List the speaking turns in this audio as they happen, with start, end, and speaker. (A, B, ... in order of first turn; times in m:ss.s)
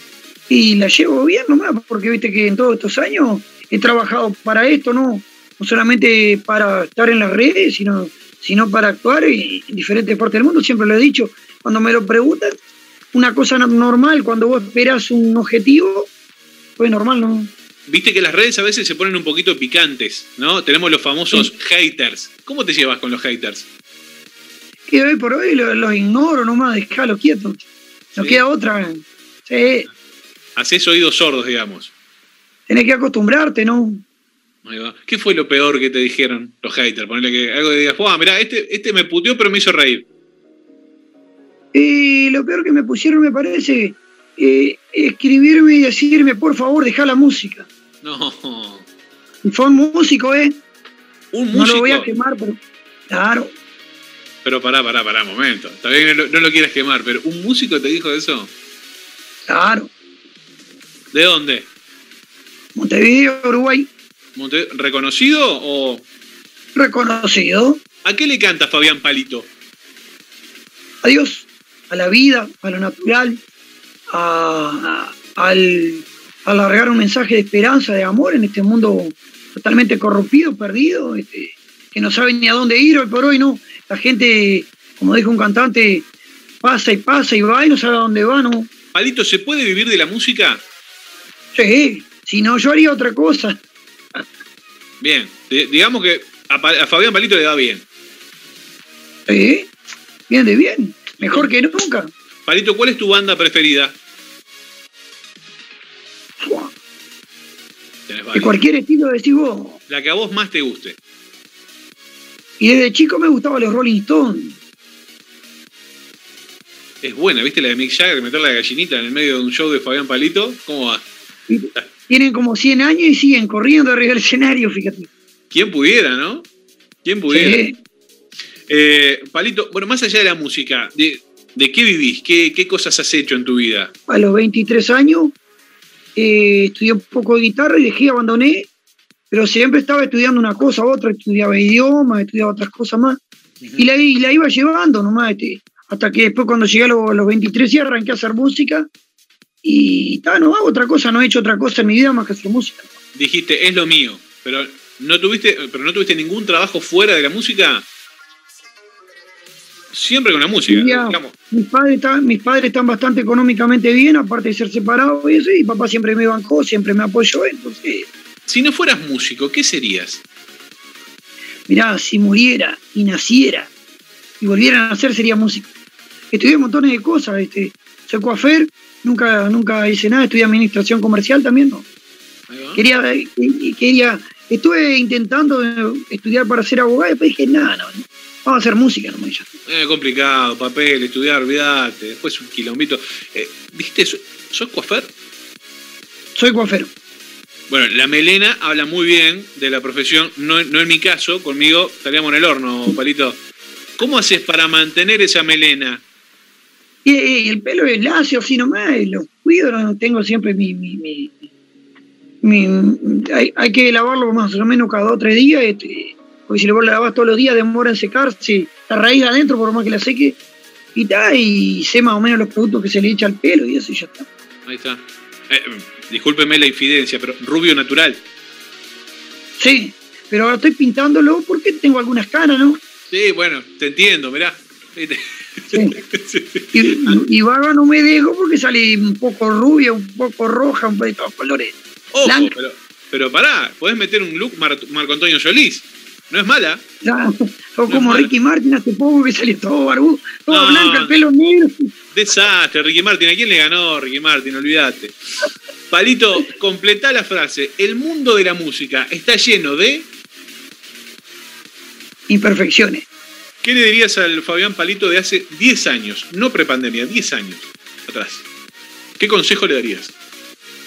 0:00.5-0:12.5 A
0:13.1-0:16.1 A
0:16.8-0:17.5 A
0:17.9-0:23.7 B
0:24.9-0:29.9 A
0:28.2-0:28.4 B
0:30.6-0:31.9 B
0:32.7-0:34.0 A
0:34.6-0:40.1 B
0:41.7-0:47.7 A
0:48.0-0:48.9 B
0:49.4-0:50.6 A
0:51.3-0:52.1 B
0:51.5-0:53.5 A
0:54.4-0:58.5 B
0:59.5-0:59.9 A
1:01.1-1:01.7 B
1:02.8-1:03.9 A
1:04.4-1:06.0 B
1:06.8-1:07.8 A
1:08.0-1:09.5 B
1:11.0-1:13.4 A
1:14.1-1:26.1 A
1:26.6-1:28.7 A
1:28.9-1:30.6 B
1:31.5-1:33.6 A
1:35.0-1:37.9 B
1:39.3-1:39.7 A
1:40.3-1:42.1 A
1:41.2-1:41.5 B
1:42.5-1:44.0 B
1:46.4-1:46.7 A
1:48.1-1:48.6 B
1:48.3-1:49.8 A
1:49.9-1:51.0 B
1:52.6-1:54.6 A
1:57.0-2:01.1 B
2:01.5-2:05.1 A
2:05.5-2:06.5 B
2:07.0-2:07.6 B
2:07.3-2:07.8 A
2:08.7-2:13.9 B
2:14.1-2:15.4 A
2:16.2-2:18.7 A
2:19.3-2:23.2 A
2:23.6-2:23.9 B
2:23.8-2:28.9 A
2:29.6-2:32.9 A
2:33.2-2:37.9 B
2:39.9-2:41.3 B
2:40.7-2:48.1 A
2:48.5-2:50.2 B
2:51.7-2:53.7 A
2:54.4-2:55.7 A
2:56.3-3:01.9 A
3:02.5-3:02.8 B
3:02.8-3:09.5 A
3:09.7-3:15.1 B
3:16.4-3:16.9 A
3:17.7-3:23.4 B
3:24.0-3:26.0 B
3:27.0-3:31.4 A
3:32.4-3:40.4 A
3:41.0-3:44.3 A
3:44.7-3:48.2 B
3:49.6-3:52.8 A
3:53.1-3:57.2 B
3:56.7-4:02.5 A
4:02.1-4:06.8 B
4:07.0-4:11.9 A
4:07.9-4:08.3 B
4:10.5-4:11.2 B
4:12.1-4:15.2 B
4:15.9-4:20.1 B
4:22.3-4:23.1 A
4:23.6-4:28.5 B
4:29.2-4:30.1 B